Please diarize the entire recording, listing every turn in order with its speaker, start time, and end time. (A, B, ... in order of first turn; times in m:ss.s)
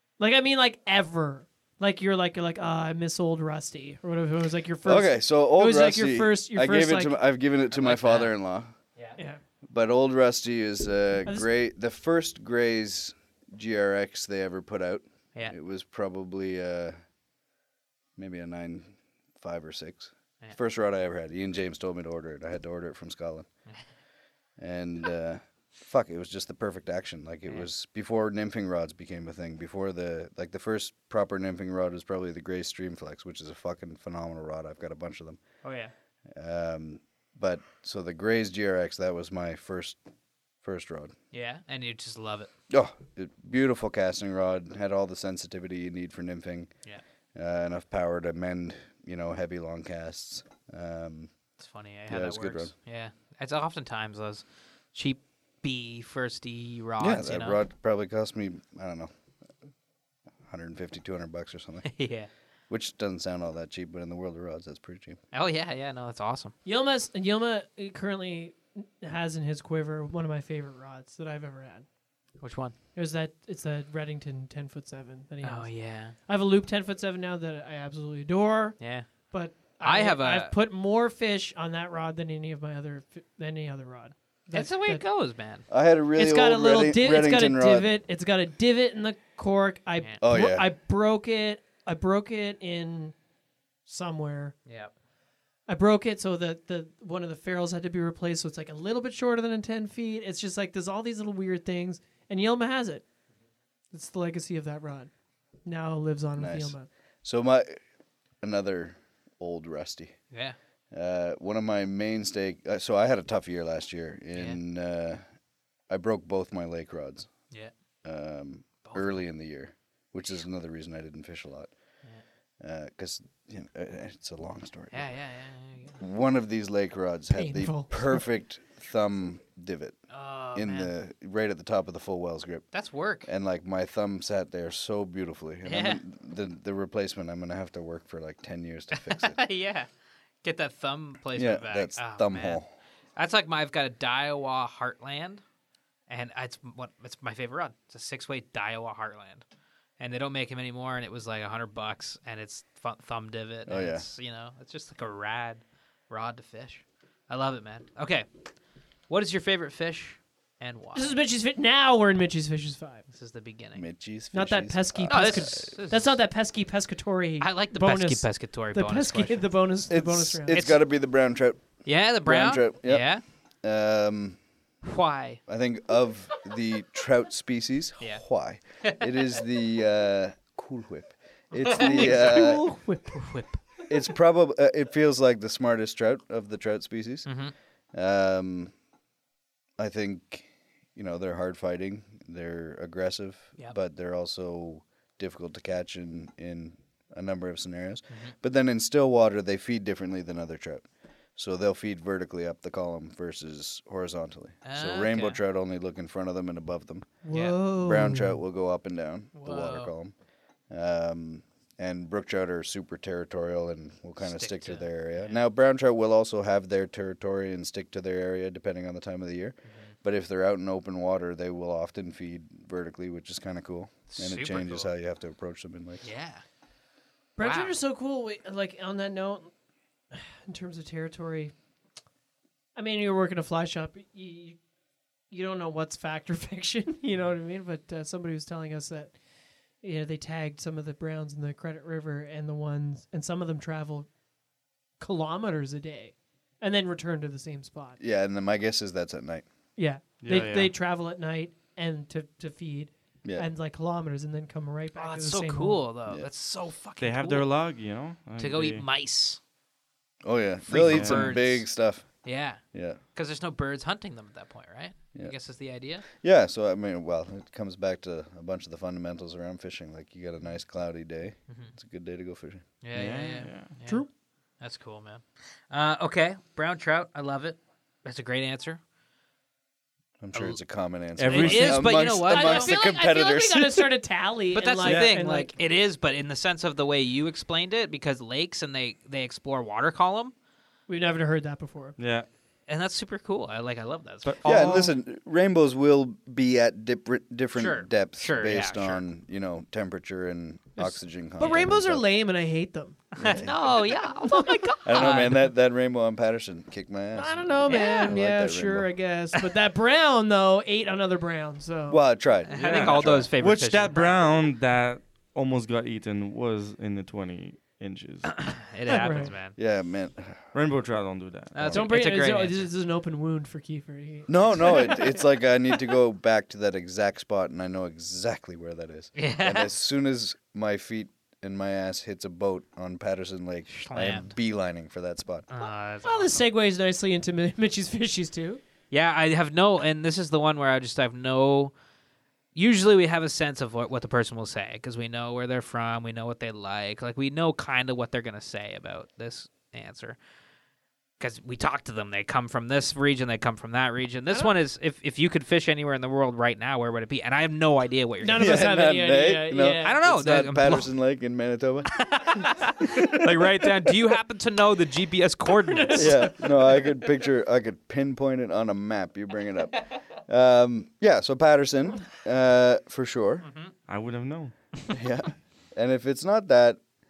0:00.2-0:07.1 A
0:04.8-0:08.7 B
0:07.7-0:08.3 C
0:09.7-0:17.0 B
0:18.2-0:23.5 B
0:24.6-0:35.4 B
0:35.6-0:35.9 C
0:36.3-0:40.0 B
0:40.6-0:41.1 B
0:41.3-0:42.5 C
0:42.7-0:46.7 B
0:47.4-0:51.3 B
0:51.6-0:57.6 C
0:52.1-0:52.7 B
0:57.0-0:59.1 B
1:00.4-1:01.9 B
1:01.8-1:02.3 C
1:02.7-1:05.2 B
1:05.3-1:06.5 C
1:06.6-1:11.9 A
1:12.4-1:12.8 C
1:13.0-1:25.0 A
1:15.4-1:16.2 C
1:18.8-1:20.5 C
1:24.5-1:25.6 C
1:25.7-1:27.9 B
1:26.2-1:33.2 A
1:30.2-1:30.7 B
1:33.9-1:34.6 A
1:34.7-1:34.9 C
1:35.7-1:43.0 A
1:43.9-1:45.1 A
1:45.6-1:46.9 A
1:46.4-1:47.8 B
1:48.4-1:50.2 B
1:50.3-1:50.6 C
1:50.9-1:55.2 B
1:54.3-1:54.6 C
1:55.9-1:57.3 B
1:58.0-2:01.7 B
1:58.8-1:59.2 C
2:02.6-2:05.1 B
2:04.9-2:06.0 C
2:06.0-2:10.0 B
2:07.3-2:08.2 A
2:10.1-2:10.9 C
2:10.6-2:12.7 B
2:12.7-2:13.3 C
2:13.2-2:19.4 B
2:15.6-2:16.0 C
2:18.9-2:19.9 C
2:20.4-2:22.6 C
2:21.4-2:22.7 B
2:23.2-2:25.4 C
2:26.1-2:29.4 C
2:30.0-2:38.3 C
2:33.7-2:34.1 B
2:39.1-2:41.2 C
2:41.0-2:43.0 A
2:43.1-2:43.8 C
2:43.8-2:45.8 B
2:44.3-2:50.6 A
2:45.0-2:46.2 C
2:47.4-2:49.5 C
2:49.9-2:53.1 B
2:50.5-2:50.8 C
2:51.8-2:53.2 C
2:53.6-2:54.4 B
2:54.8-2:55.4 C
2:55.5-3:02.6 B
2:58.8-2:59.1 C
3:01.6-3:03.6 C
3:01.7-3:03.4 A
3:03.9-3:07.3 B
3:07.3-3:07.5 C
3:07.9-3:08.7 B
3:09.8-3:20.8 B
3:21.4-3:27.1 B
3:24.6-3:25.4 C
3:27.2-3:28.4 A
3:27.7-3:30.1 B
3:29.4-3:29.9 C
3:30.7-3:46.0 B
3:34.2-3:35.4 C
3:39.7-3:39.9 C
3:44.1-3:44.9 C
3:46.0-3:46.4 C
3:47.4-3:49.5 A
3:47.4-3:47.8 C
3:50.1-3:51.5 A
3:52.8-3:54.6 A
3:55.3-3:59.2 A
3:59.8-4:04.1 A
4:05.0-4:08.0 A
4:08.0-4:09.4 B
4:09.8-4:15.8 A
4:10.2-4:10.7 D
4:13.2-4:13.5 B
4:15.0-4:17.5 C
4:17.0-4:18.8 D
4:18.4-4:19.4 C
4:20.2-4:23.0 B
4:20.6-4:26.0 C
4:20.9-4:21.2 D
4:26.1-4:32.6 B
4:32.8-4:34.1 C
4:32.9-4:33.7 D
4:34.6-4:38.8 C
4:40.2-4:43.9 B
4:40.3-4:40.6 C
4:41.2-4:41.9 D
4:41.3-4:42.8 C
4:41.3-4:45.5 A
4:44.5-4:50.3 C
4:44.8-4:45.1 D
4:50.9-4:52.0 A
4:52.0-4:52.3 D
4:52.7-4:54.7 C
4:54.2-4:54.9 D
4:54.4-5:02.1 B
4:57.6-4:59.0 C
5:00.8-5:03.1 A
5:03.2-5:05.5 C
5:03.2-5:03.7 B
5:04.1-5:04.8 A
5:04.8-5:08.9 B
5:07.2-5:12.0 A
5:07.6-5:08.2 C
5:11.9-5:13.3 B
5:12.5-5:14.4 C
5:12.6-5:18.6 D
5:18.3-5:19.6 C
5:18.9-5:19.3 A
5:19.6-5:20.4 B
5:20.5-5:21.7 D
5:21.5-5:22.7 C
5:21.6-5:21.9 B
5:21.7-5:25.2 A
5:24.3-5:35.5 B
5:29.2-5:29.7 C
5:33.7-5:34.3 C
5:35.5-5:36.4 C
5:35.6-5:38.6 A
5:38.9-5:41.7 C
5:42.5-5:50.2 C
5:51.2-5:58.7 C
5:58.2-6:00.0 A
5:58.4-6:02.2 B
5:59.8-6:00.9 C
6:01.9-6:06.5 C
6:05.8-6:06.1 A
6:05.9-6:13.5 B
6:13.4-6:13.7 C
6:13.9-6:14.5 D
6:14.9-6:16.8 B